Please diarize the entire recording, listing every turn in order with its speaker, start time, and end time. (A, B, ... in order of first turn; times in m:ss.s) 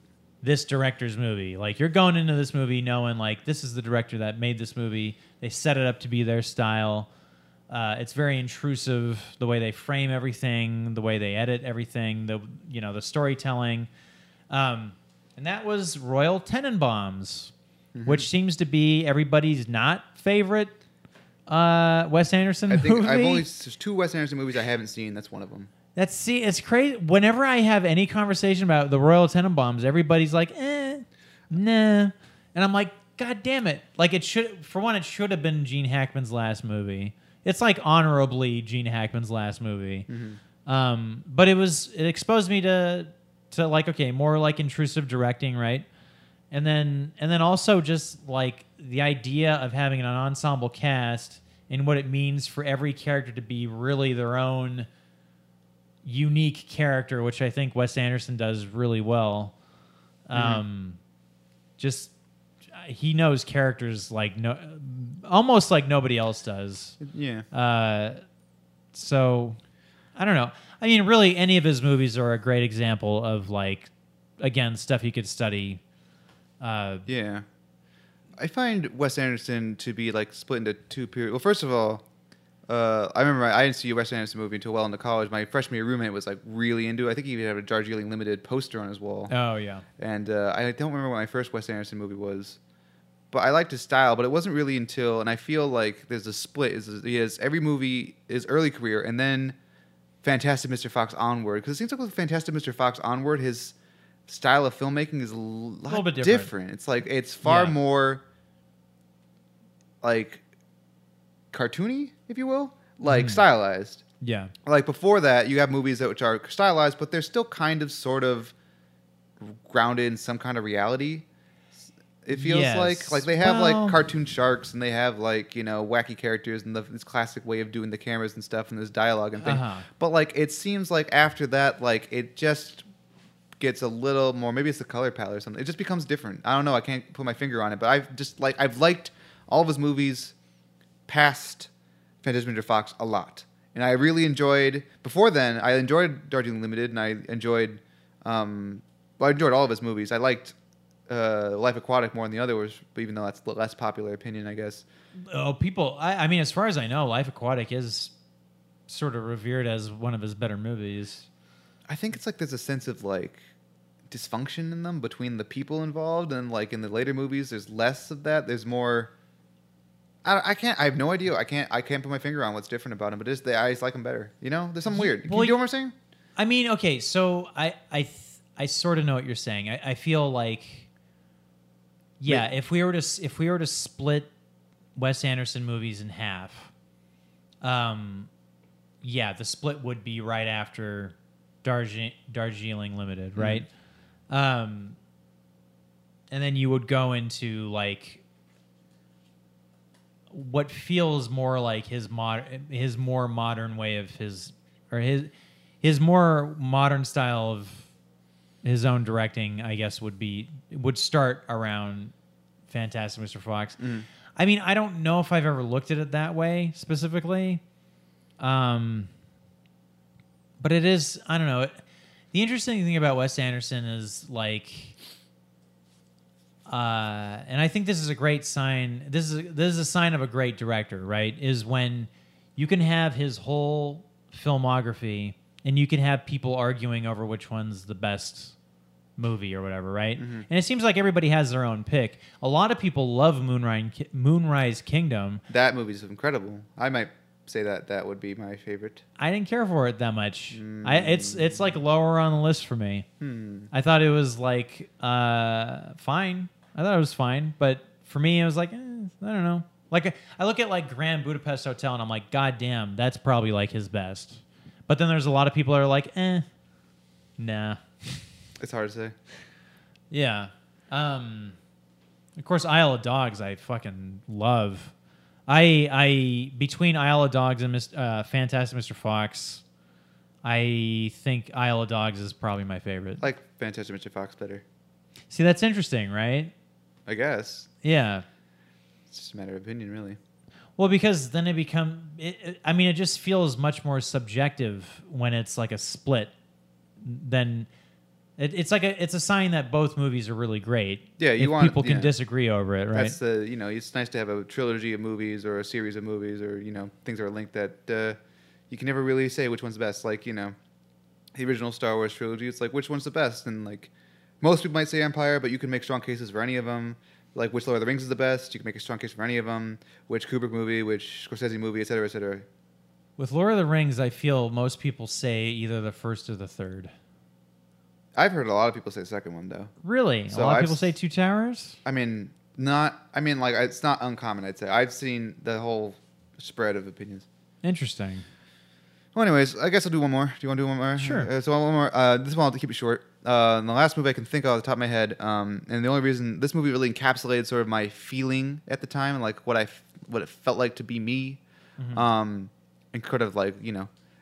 0:00.4-0:07.1 A
0:07.7-0:13.9 A
0:14.5-0:17.5 A
0:17.9-0:18.3 B
0:18.0-0:20.8 A
0:21.5-0:23.5 A
0:22.7-0:25.7 B
0:25.9-0:40.1 A
0:40.1-0:40.4 B
0:40.6-0:45.8 A
0:46.5-0:54.9 A
0:56.0-0:59.5 A
1:00.3-1:01.0 A
1:00.3-1:00.6 B
1:01.8-1:02.1 A
1:02.7-1:07.0 A
1:07.0-1:07.4 B
1:07.5-1:08.2 A
1:08.9-1:09.6 A
1:10.2-1:15.8 A
1:16.6-1:17.0 A
1:17.1-1:17.4 B
1:18.4-1:22.0 B
1:22.7-1:29.3 B
1:29.3-1:29.8 A
1:30.0-1:32.6 B
1:33.3-1:39.6 B
1:40.2-1:43.7 B
1:44.3-1:48.2 B
1:45.9-1:46.5 A
1:47.4-1:47.8 A
1:50.0-1:50.4 B
1:51.5-1:54.0 B
1:53.0-1:53.4 A
1:54.2-1:54.5 A
1:54.6-1:58.5 B
1:59.4-2:01.2 B
2:02.2-2:12.8 B
2:02.3-2:04.0 A
2:09.4-2:09.9 A
2:13.6-2:20.3 B
2:21.1-2:21.7 B
2:22.2-2:30.5 B
2:31.1-2:34.8 B
2:35.2-2:38.1 A
2:38.9-2:41.3 A
2:41.9-2:43.4 B
2:44.1-2:49.1 B
2:50.2-2:55.9 B
2:54.9-2:55.6 A
2:56.4-3:00.9 A
3:02.2-3:04.3 A
3:05.0-3:06.7 A
3:07.6-3:08.3 A
3:09.0-3:13.7 A
3:13.4-3:13.6 B
3:14.3-3:15.0 A
3:16.3-3:18.2 A
3:20.3-3:25.3 A
3:25.8-3:27.9 A
3:28.6-3:32.1 A
3:32.7-3:33.8 A
3:33.8-3:34.1 B
3:34.3-3:37.6 A
3:38.4-3:39.1 A
3:40.6-3:41.7 A
3:42.3-3:45.0 A
3:46.7-3:58.5 A
3:59.2-4:05.4 A
4:00.2-4:00.5 B
4:05.5-4:09.0 B
4:09.2-4:13.0 A
4:10.5-4:11.8 B
4:13.2-4:13.7 B
4:13.7-4:26.4 A
4:27.4-4:28.2 A
4:28.6-4:29.1 B
4:30.1-4:31.6 A
4:32.4-4:34.9 A
4:35.5-4:39.6 A
4:40.4-4:43.2 A
4:43.2-4:44.6 B
4:45.3-4:46.5 A
4:47.1-4:47.7 B
4:47.8-4:48.2 A
4:49.1-4:50.2 B
4:50.8-4:56.3 A
4:57.0-4:57.7 A
4:58.4-5:03.2 A
5:01.2-5:02.1 B
5:02.9-5:08.2 B
5:08.7-5:10.5 B
5:11.3-5:22.4 B
5:23.2-5:26.9 A
5:28.2-5:29.7 B
5:29.8-5:31.8 A
5:30.3-5:30.9 B
5:31.8-5:37.2 B
5:37.6-5:38.2 A
5:39.1-5:51.4 B
5:41.0-5:41.3 A
5:51.8-5:52.0 A
5:51.9-5:53.9 B